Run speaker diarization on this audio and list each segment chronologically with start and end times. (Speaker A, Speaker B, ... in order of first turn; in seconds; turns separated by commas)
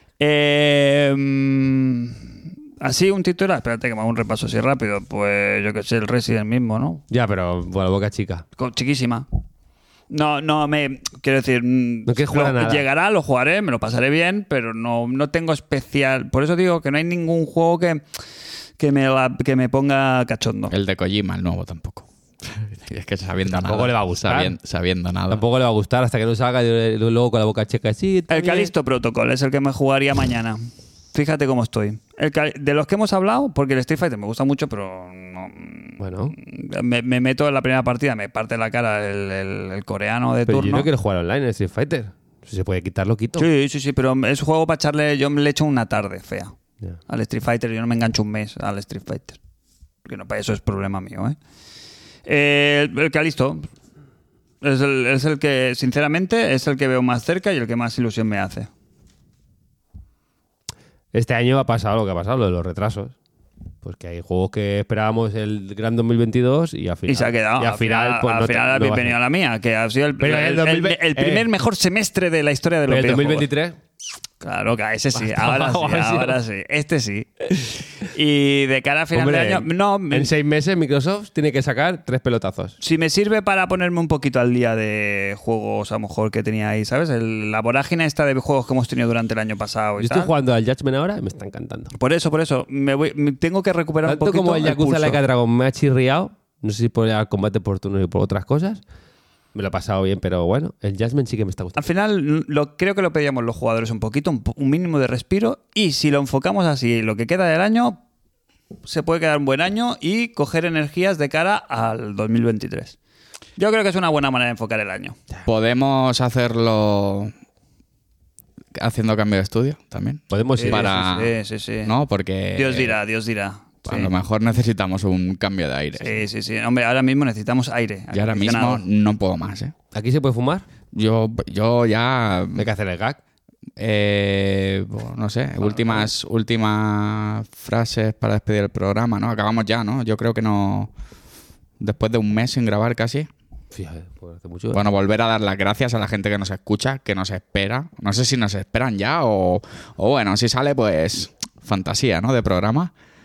Speaker A: 0.2-7.0, Speaker B: 7.1-8.4, Speaker A: 8.6-9.3, Speaker A: 10.1-18.0, Speaker B: 12.1-12.8, Speaker A: 18.8-20.7, Speaker C: 20.7-25.4, Speaker B: 23.5-24.6, Speaker B: 25.3-28.7, Speaker A: 28.3-40.9, Speaker B: 36.0-36.3, Speaker B: 40.5-43.5, Speaker A: 43.4-46.5, Speaker A: 47.1-49.4, Speaker A: 50.0-51.4, Speaker A: 52.2-53.7, Speaker A: 54.6-58.7, Speaker B: 61.1-63.1, Speaker B: 63.8-69.2, Speaker A: 67.1-73.5, Speaker B: 70.2-71.5, Speaker B: 72.9-73.8, Speaker A: 74.4-80.3, Speaker B: 75.1-76.4, Speaker B: 79.1-82.8, Speaker A: 82.8-90.3, Speaker B: 90.0-91.9, Speaker A: 91.9-95.2, Speaker B: 94.0-98.8, Speaker B: 99.5-101.9, Speaker A: 101.8-108.0, Speaker A: 108.8-113.0, Speaker A: 113.6-115.2, Speaker C: 115.4-117.3, Speaker C: 118.7-123.0, Speaker B: 120.3-121.0, Speaker A: 120.5-121.9, Speaker A: 122.5-124.1, Speaker C: 123.8-126.2, Speaker A: 126.0-128.8, Speaker C: 128.1-129.7, Speaker B: 129.9-130.6, Speaker C: 130.9-132.7, Speaker B: 132.6-133.2, Speaker C: 133.8-140.9, Speaker C: 141.8-143.3, Speaker B: 143.7-144.8, Speaker C: 144.7-152.9